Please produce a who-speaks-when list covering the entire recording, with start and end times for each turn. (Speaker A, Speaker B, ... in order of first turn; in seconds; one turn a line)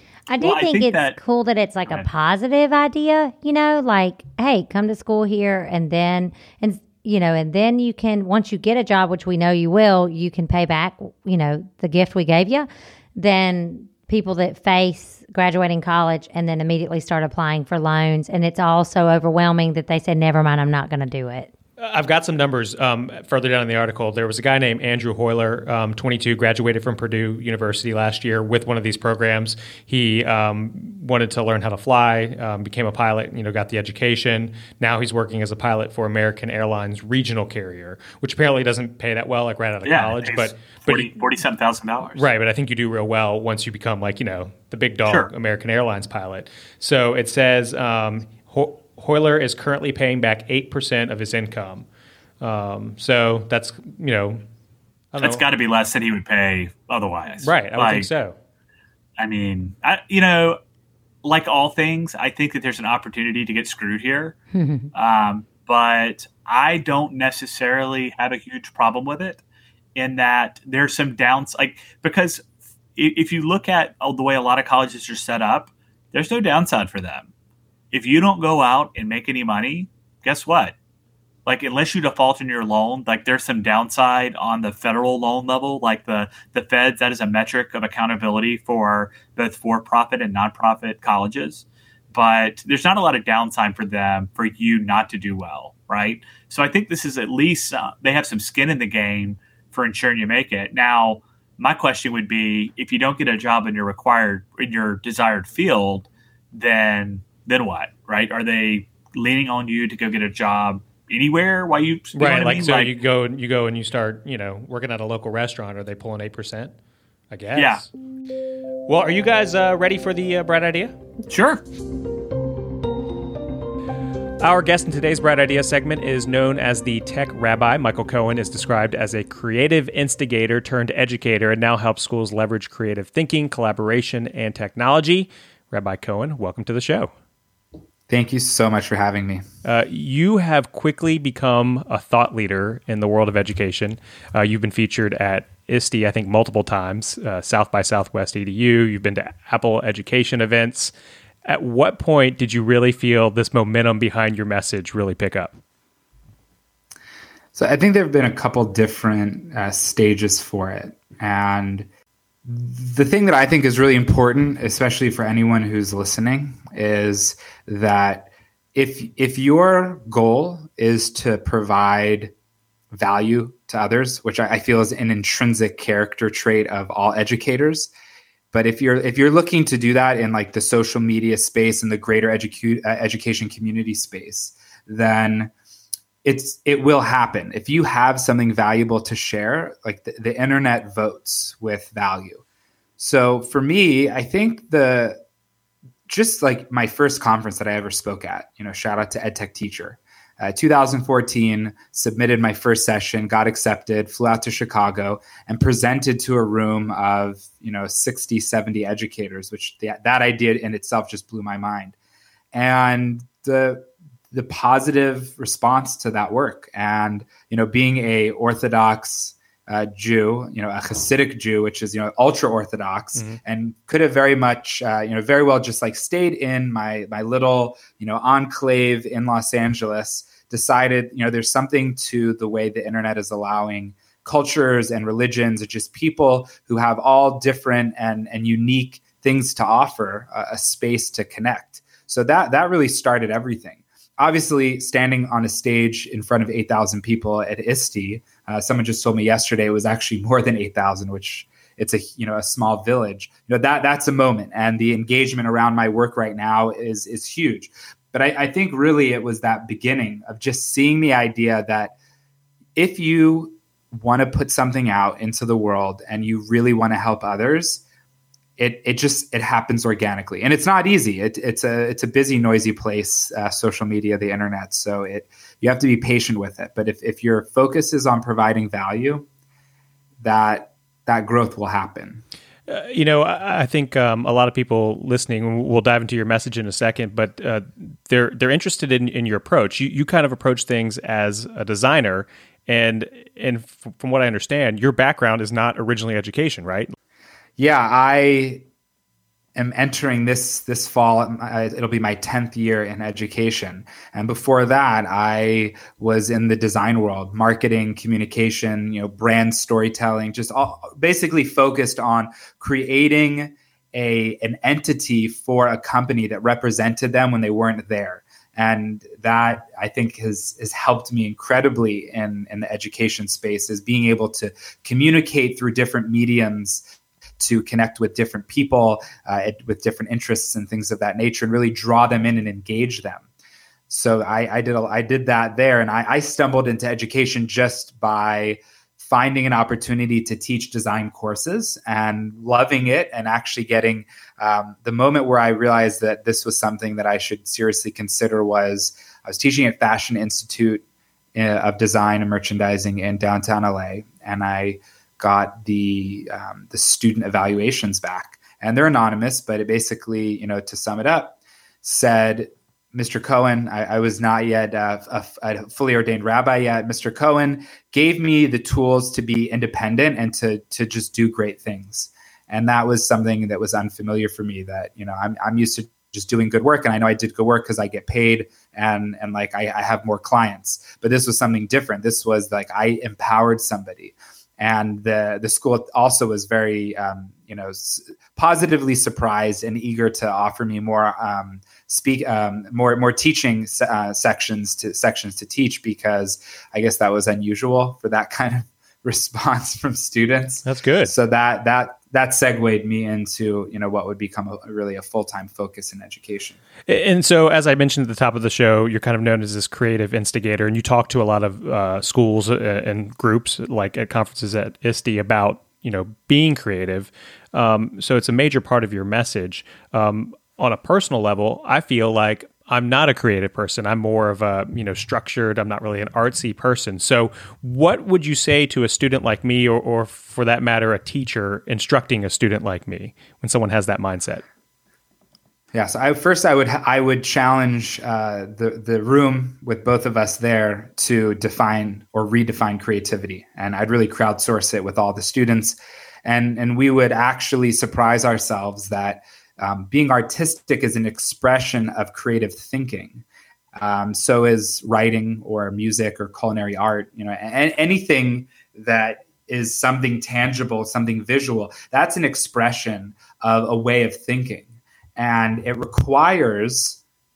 Speaker A: 0.3-21.5
Speaker B: 0.4-1.2
Speaker C: 21.8-41.1
Speaker B: 39.9-42.3
Speaker C: 42.1-51.9
Speaker C: 52.4-54.4
Speaker C: 55.1-55.4
Speaker B: 55.2-58.1
Speaker C: 57.4-58.4
Speaker B: 59.2-60.6
Speaker B: 61.2-64.4
Speaker A: 64.5-64.9
Speaker B: 64.9-69.4
Speaker B: 70.0-72.5
Speaker B: 73.0-77.3
Speaker B: 77.9-80.8
Speaker B: 81.5-112.9
Speaker C: 112.1-116.8
Speaker C: 117.3-117.9
Speaker B: 117.5-117.8
Speaker C: 118.9-121.0
Speaker B: 121.3-121.6
Speaker C: 124.4-137.1
Speaker D: 138.1-139.4
Speaker C: 139.6-150.9
Speaker C: 151.4-155.6
Speaker D: 157.6-161.9
Speaker D: 162.4-172.3
Speaker D: 172.9-177.9
Speaker D: 178.5-185.5
Speaker D: 186.2-192.4
Speaker D: 193.0-195.2
Speaker D: 196.1-212.0
Speaker D: 212.5-261.9
Speaker D: 262.8-267.8
Speaker D: 268.6-279.3
Speaker D: 280.2-282.2
Speaker C: 282.7-296.9
Speaker D: 297.6-298.6
Speaker D: 299.6-326.8
Speaker D: 327.4-333.3
Speaker D: 333.9-350.8
Speaker D: 351.4-406.6
Speaker C: 400.6-401.1
Speaker C: 406.9-434.4
Speaker D: 435.7-453.2
Speaker D: 453.8-467.0